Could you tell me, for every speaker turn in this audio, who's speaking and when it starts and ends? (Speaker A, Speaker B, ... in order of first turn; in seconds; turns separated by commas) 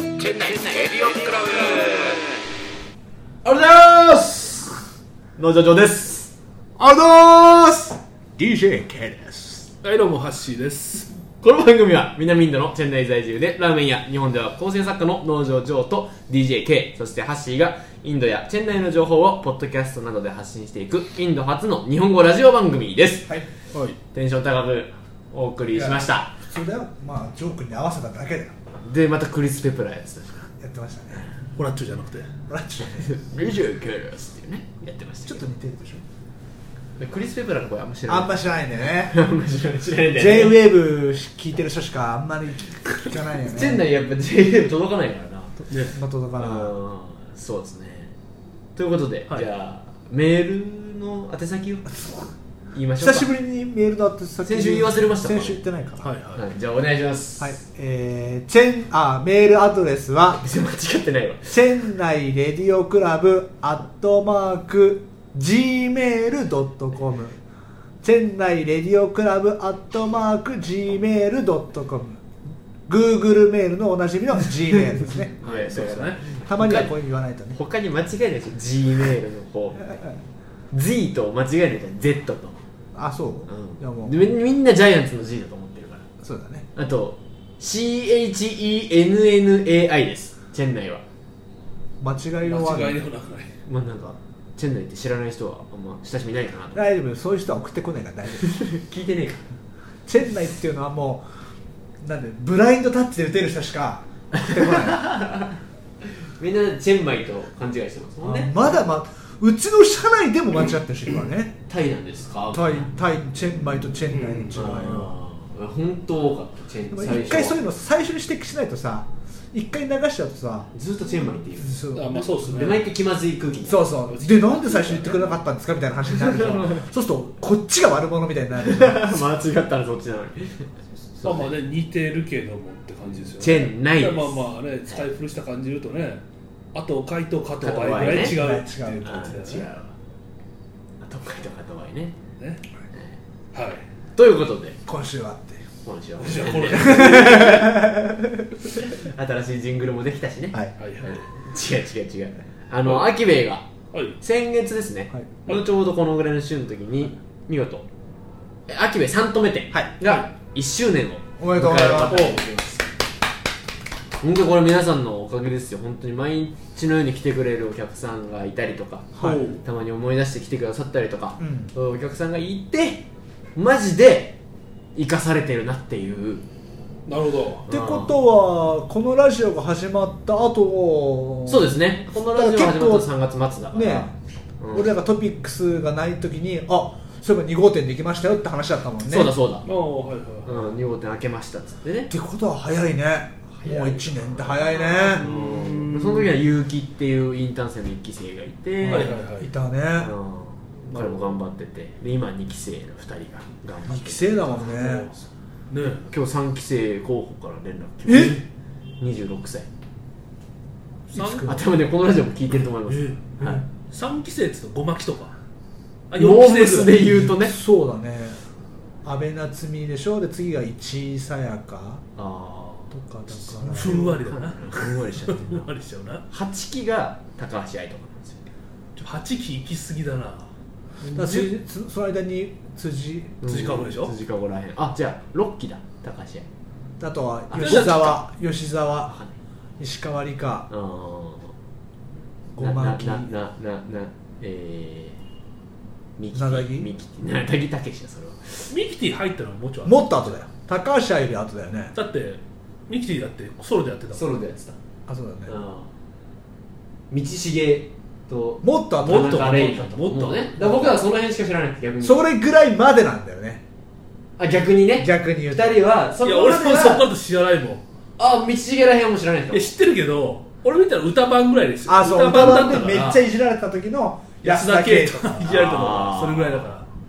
Speaker A: 0.3-2.2, Speaker A: 3.5-4.8, Speaker A: 5.4-6.3, Speaker B: 6.8-9.7, Speaker C: 9.8-11.1, Speaker A: 11.4-23.3, Speaker A: 24.1-26.3, Speaker B: 25.7-28.5, Speaker A: 28.8-30.5, Speaker B: 30.6-31.2, Speaker C: 31.6-32.3, Speaker B: 32.5-33.1, Speaker A: 33.0-35.5, Speaker B: 35.2-36.0, Speaker A: 37.0-40.7, Speaker B: 38.1-39.2, Speaker B: 40.1-43.8, Speaker A: 43.4-45.6, Speaker B: 45.9-46.7, Speaker A: 46.4-48.1, Speaker A: 48.7-51.9, Speaker B: 51.9-52.2, Speaker A: 52.7-53.3, Speaker B: 53.0-56.1, Speaker A: 54.4-55.6, Speaker C: 56.0-56.4, Speaker A: 56.3-57.6, Speaker B: 57.4-60.4, Speaker A: 60.4-61.5, Speaker B: 61.5-67.4, Speaker B: 68.0-72.2, Speaker B: 72.9-75.3, Speaker A: 75.3-77.0, Speaker C: 75.4-76.2, Speaker B: 76.5-77.6, Speaker A: 77.5-80.0, Speaker A: 80.7-82.6, Speaker B: 82.9-84.1, Speaker A: 83.5-86.1, Speaker B: 86.2-86.7, Speaker A: 86.8-91.0, Speaker B: 92.0-93.0, Speaker C: 92.4-93.5, Speaker A: 93.7-96.9, Speaker B: 96.7-98.5, Speaker A: 98.4-99.4, Speaker B: 100.1-101.2, Speaker B: 102.0-105.1, Speaker A: 104.4-108.8, Speaker B: 108.2-111.5, Speaker A: 111.7-112.9, Speaker B: 112.5-115.1, Speaker C: 114.1-114.8, Speaker A: 114.5-117.6, Speaker B: 116.9-120.7, Speaker A: 120.7-121.8, Speaker B: 121.6-122.8, Speaker C: 121.9-122.8, Speaker A: 122.5-123.9, Speaker B: 123.7-129.3, Speaker C: 124.1-125.3, Speaker A: 126.3-126.8, Speaker A: 128.6-131.6, Speaker C: 131.2-136.2, Speaker A: 133.4-135.1, Speaker C: 136.7-139.7, Speaker A: 137.6-138.4, Speaker B: 138.1-139.5, Speaker A: 139.0-139.9, Speaker A: 141.0-142.2, Speaker C: 142.4-142.6, Speaker A: 142.9-143.2, Speaker C: 143.5-143.8, Speaker A: 144.2-144.8, Speaker B: 144.8-145.6, Speaker A: 145.8-147.8, Speaker C: 146.2-147.7, Speaker B: 146.5-148.5, Speaker A: 148.8-153.7, Speaker C: 150.8-151.2, Speaker C: 152.8-153.1, Speaker A: 154.2-157.8, Speaker A: 158.7-162.8, Speaker C: 160.0-160.3, Speaker B: 161.4-162.3, Speaker C: 162.0-162.4, Speaker A: 164.2-173.0, Speaker B: 169.2-169.4, Speaker C: 169.2-169.6, Speaker B: 171.4-171.7, Speaker A: 173.6-174.4, Speaker A: 174.9-176.4, Speaker C: 177.1-177.6, Speaker B: 177.7-183.1, Speaker A: 177.7-178.2, Speaker A: 181.4-184.1, Speaker B: 183.7-184.1, Speaker A: 184.6-184.9, Speaker B: 184.7-189.3, Speaker A: 189.1-189.7, Speaker C: 189.7-190.6, Speaker A: 190.4-192.1, Speaker B: 192.1-195.2, Speaker A: 193.6-199.2, Speaker C: 194.8-196.4, Speaker B: 198.8-200.1, Speaker C: 198.8-199.5, Speaker A: 200.0-204.9, Speaker C: 200.9-201.4, Speaker B: 203.9-205.1, Speaker C: 204.5-205.1, Speaker C: 205.7-206.0, Speaker A: 206.1-208.4, Speaker B: 208.0-208.4, Speaker A: 209.0-209.7, Speaker C: 211.1-211.5, Speaker B: 211.1-211.7, Speaker A: 211.4-213.6, Speaker C: 212.9-213.3, Speaker C: 213.9-215.3, Speaker C: 216.1-217.0, Speaker A: 216.1-217.6, Speaker B: 217.1-218.4, Speaker B: 219.0-222.0, Speaker A: 222.2-222.9, Speaker B: 222.9-224.2, Speaker A: 223.6-225.7, Speaker C: 223.7-226.2, Speaker A: 226.3-228.4, Speaker C: 228.9-230.5, Speaker C: 231.0-231.6, Speaker B: 231.1-233.8, Speaker A: 233.4-236.4, Speaker C: 233.4-234.1, Speaker B: 237.0-239.2, Speaker A: 237.5-238.2, Speaker C: 237.6-238.2, Speaker A: 239.1-239.3, Speaker B: 239.8-240.7, Speaker A: 240.7-241.5, Speaker B: 242.5-243.3, Speaker A: 242.6-245.2, Speaker A: 246.2-248.7, Speaker B: 246.3-246.9, Speaker C: 248.7-250.4, Speaker B: 249.8-251.9, Speaker C: 251.9-254.3, Speaker A: 254.1-254.8, Speaker B: 255.1-255.6, Speaker A: 255.4-255.9, Speaker A: 257.1-262.3, Speaker B: 258.6-259.5, Speaker C: 259.0-260.9, Speaker B: 260.6-261.0, Speaker B: 262.0-263.6, Speaker A: 264.4-267.0, Speaker B: 265.0-265.8, Speaker C: 266.2-267.8, Speaker A: 268.2-269.7, Speaker C: 269.5-273.2, Speaker B: 271.9-275.5, Speaker C: 274.4-276.9, Speaker A: 275.5-276.7